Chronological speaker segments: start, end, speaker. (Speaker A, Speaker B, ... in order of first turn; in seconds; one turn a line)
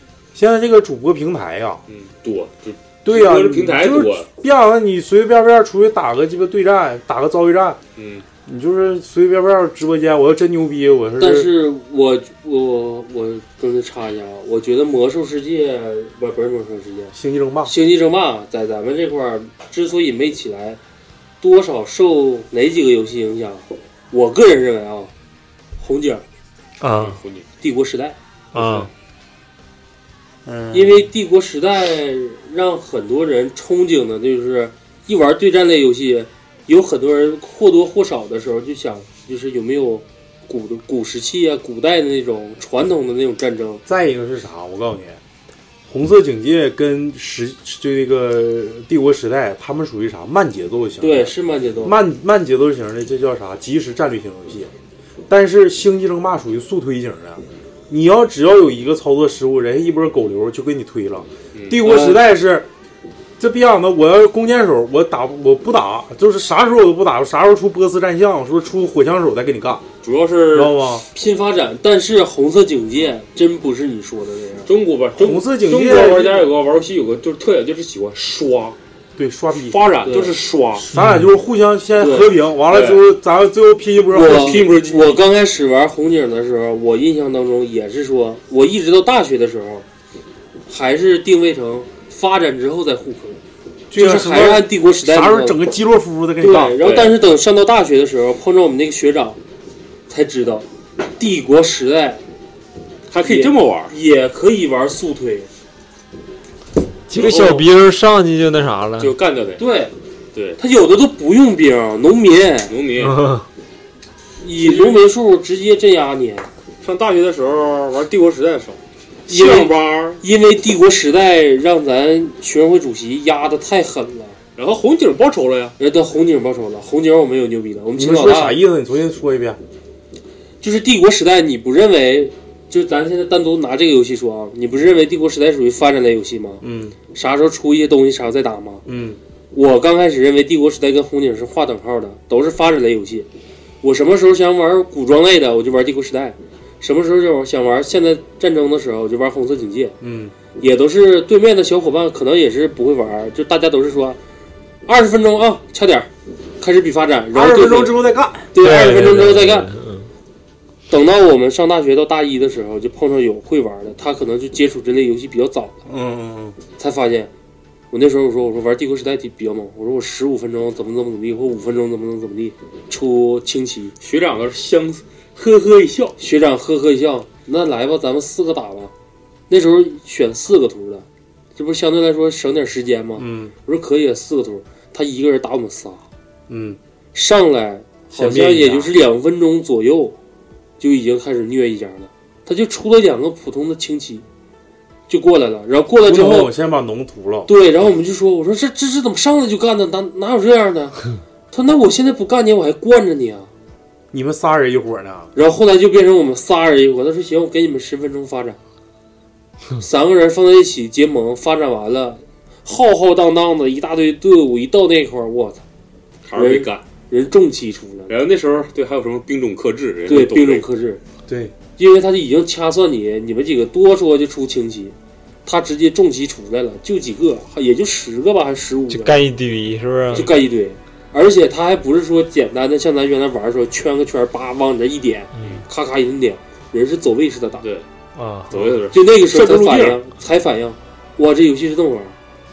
Speaker A: 0.3-1.8
Speaker B: 1.9-4.3
Speaker A: 3.0-7.8
Speaker B: 8.0-8.2
Speaker A: 8.4-11.5
Speaker C: 11.2-20.8
Speaker A: 17.1-17.7
Speaker C: 21.4-25.1
Speaker C: 25.8-26.2
Speaker D: 26.8-27.2
Speaker B: 26.9-27.4
Speaker C: 27.6-28.2
Speaker D: 28.5-28.9
Speaker B: 28.5-28.9
Speaker A: 30.4-31.0
Speaker C: 30.7-43.8
Speaker A: 43.9-45.2
Speaker A: 45.9-54.7
Speaker C: 51.0-52.0
Speaker A: 55.3-62.7
Speaker B: 61.5-61.8
Speaker C: 61.8-62.2
Speaker A: 63.4-69.8
Speaker B: 70.0-70.8
Speaker A: 70.5-71.0
Speaker C: 71.1-74.7
Speaker B: 74.7-78.8
Speaker A: 75.1-76.5
Speaker A: 79.2-79.8
Speaker B: 79.7-80.9
Speaker C: 80.0-80.3
Speaker A: 80.9-84.7
Speaker D: 80.9-81.3
Speaker C: 82.0-82.3
Speaker B: 82.7-83.1
Speaker C: 84.1-89.8
Speaker B: 84.1-85.2
Speaker C: 90.7-93.4
Speaker A: 93.9-96.8
Speaker C: 93.9-95.6
Speaker C: 96.4-99.4
Speaker B: 96.8-97.2
Speaker C: 100.1-100.7
Speaker C: 101.2-102.2
Speaker B: 103.1-103.9
Speaker C: 103.2-105.5
Speaker D: 107.1-109.1
Speaker B: 107.1-107.7
Speaker B: 109.0-109.6
Speaker C: 109.6-109.9
Speaker B: 110.3-110.6
Speaker C: 110.6-112.7
Speaker B: 112.7-113.2
Speaker D: 113.0-113.5
Speaker C: 114.4-116.5
Speaker B: 114.6-115.0
Speaker B: 116.8-120.2
Speaker C: 119.3-124.4
Speaker B: 124.5-125.8
Speaker C: 125.8-128.6
Speaker A: 127.9-129.6
Speaker C: 130.6-138.8
Speaker A: 136.6-136.9
Speaker A: 138.8-139.2
Speaker C: 139.5-143.3
Speaker C: 143.8-149.9
Speaker A: 150.0-150.3
Speaker C: 150.6-154.2
Speaker C: 154.8-158.0
Speaker A: 157.3-158.5
Speaker C: 158.5-159.7
Speaker D: 158.6-160.1
Speaker C: 160.9-165.8
Speaker A: 165.8-166.6
Speaker C: 166.8-167.3
Speaker C: 167.9-173.9
Speaker B: 174.0-176.2
Speaker C: 176.2-178.9
Speaker C: 179.5-186.0
Speaker A: 183.2-183.5
Speaker A: 186.5-186.8
Speaker C: 187.1-190.2
Speaker A: 188.1-188.9
Speaker C: 190.8-194.2
Speaker C: 195.1-196.5
Speaker A: 196.0-197.5
Speaker C: 197.5-203.5
Speaker A: 204.1-205.3
Speaker C: 205.3-208.6
Speaker C: 209.8-215.6
Speaker B: 216.2-216.8
Speaker C: 216.3-218.1
Speaker B: 218.1-220.6
Speaker C: 220.1-221.0
Speaker A: 221.3-221.5
Speaker C: 221.8-224.9
Speaker C: 225.4-229.2
Speaker D: 228.9-230.3
Speaker B: 230.1-230.4
Speaker C: 230.1-237.6
Speaker D: 235.4-235.6
Speaker B: 237.6-237.9
Speaker D: 238.2-238.8
Speaker B: 238.5-240.0
Speaker C: 238.9-242.2